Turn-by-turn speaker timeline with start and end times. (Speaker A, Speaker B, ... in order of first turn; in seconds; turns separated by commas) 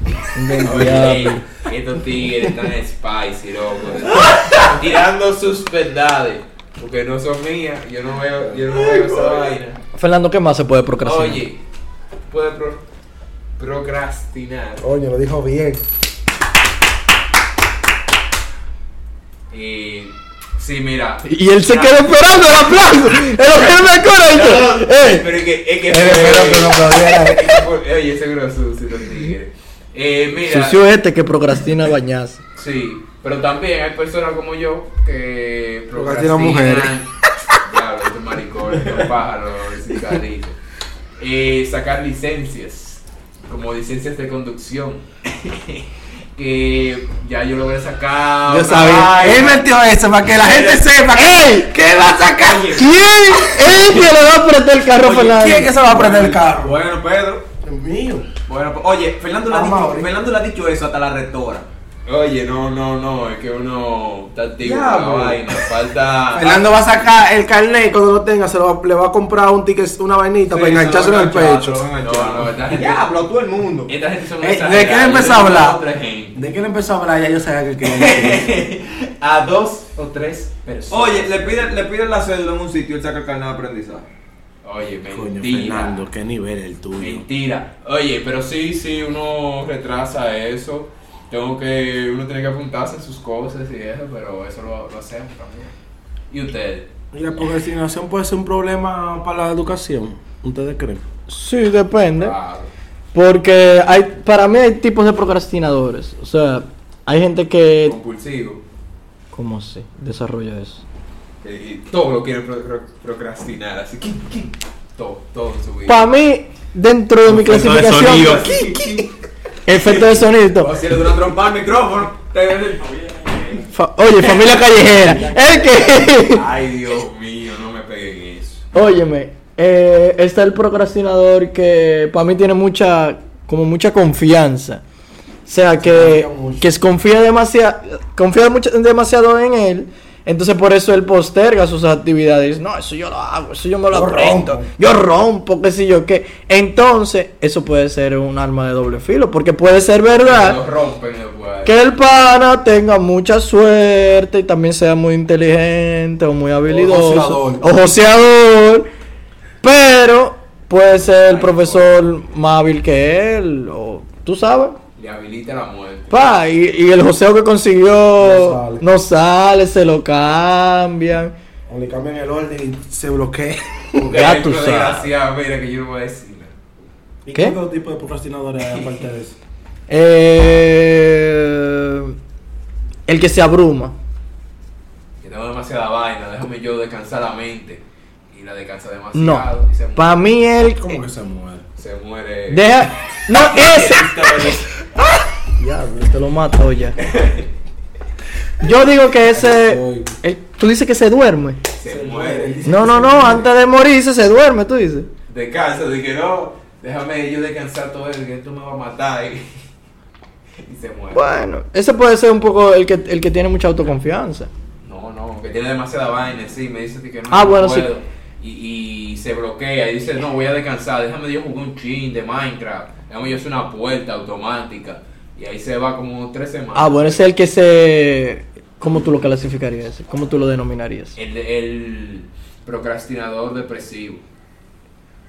Speaker A: 0.3-1.4, Speaker B: 0.6-9.8, Speaker A: 9.9-11.4, Speaker B: 11.0-11.6, Speaker B: 12.3-12.8, Speaker B: 13.6-14.9, Speaker C: 14.8-15.8, Speaker B: 19.5-22.5, Speaker A: 21.2-25.2, Speaker B: 24.3-30.8, Speaker C: 25.9-27.6, Speaker A: 30.5-32.4, Speaker B: 32.6-40.6, Speaker C: 35.9-36.9, Speaker B: 41.2-45.9, Speaker B: 46.4-49.7, Speaker C: 48.5-52.8, Speaker B: 50.4-50.9, Speaker A: 51.1-51.7, Speaker D: 52.4-52.9, Speaker A: 52.8-55.7, Speaker B: 53.7-54.0, Speaker D: 55.0-57.4, Speaker C: 55.1-56.8, Speaker C: 57.6-58.3, Speaker D: 58.5-61.7, Speaker C: 59.5-60.1, Speaker B: 62.1-66.7, Speaker D: 64.6-65.6, Speaker C: 66.3-71.9, Speaker D: 70.5-73.9, Speaker B: 72.0-73.1, Speaker B: 73.9-76.4, Speaker C: 74.4-75.8, Speaker C: 76.3-78.5, Speaker B: 77.8-81.8, Speaker D: 80.9-84.1, Speaker B: 84.6-86.0, Speaker C: 85.1-87.2, Speaker B: 87.0-95.7, Speaker B: 96.3-96.9, Speaker C: 97.1-101.0, Speaker A: 101.3-102.3, Speaker B: 102.2-102.7, Speaker A: 103.1-108.0, Speaker B: 107.8-108.6, Speaker A: 109.3-110.8, Speaker B: 111.4-116.1, Speaker A: 115.9-119.0, Speaker B: 117.2-119.0, Speaker D: 118.0-118.8, Speaker A: 119.7-120.7, Speaker B: 119.7-120.0, Speaker D: 120.6-123.6, Speaker A: 123.7-126.5, Speaker B: 124.3-124.6, Speaker C: 125.0-125.8, Speaker B: 126.1-128.6, Speaker A: 128.7-134.8, Speaker A: 135.5-150.6, Speaker C: 135.8-136.7, Speaker C: 143.9-144.7, Speaker B: 150.2-151.7, Speaker A: 151.6-158.9, Speaker C: 156.7-157.6, Speaker A: 159.6-164.8, Speaker B: 161.3-161.9, Speaker B: 165.0-166.2, Speaker A: 166.1-171.3, Speaker C: 168.2-168.8, Speaker C: 171.7-174.2, Speaker B: 174.0-176.5, Speaker A: 174.0-175.1, Speaker C: 177.2-179.4, Speaker A: 179.9-182.2, Speaker A: 183.1-183.9, Speaker B: 185.2-190.2, Speaker A: 189.1-190.9, Speaker C: 190.8-191.7, Speaker B: 191.8-194.7, Speaker A: 192.5-194.5, Speaker A: 195.6-197.0, Speaker B: 197.0-197.5, Speaker A: 198.6-201.6, Speaker C: 199.2-200.1, Speaker B: 201.8-202.8, Speaker C: 201.8-203.5, Speaker A: 202.6-205.1, Speaker B: 205.3-209.5, Speaker B: 210.6-211.4, Speaker A: 211.1-214.5, Speaker B: 214.8-227.2, Speaker A: 217.3-217.9, Speaker A: 226.8-231.2, Speaker B: 231.2-234.2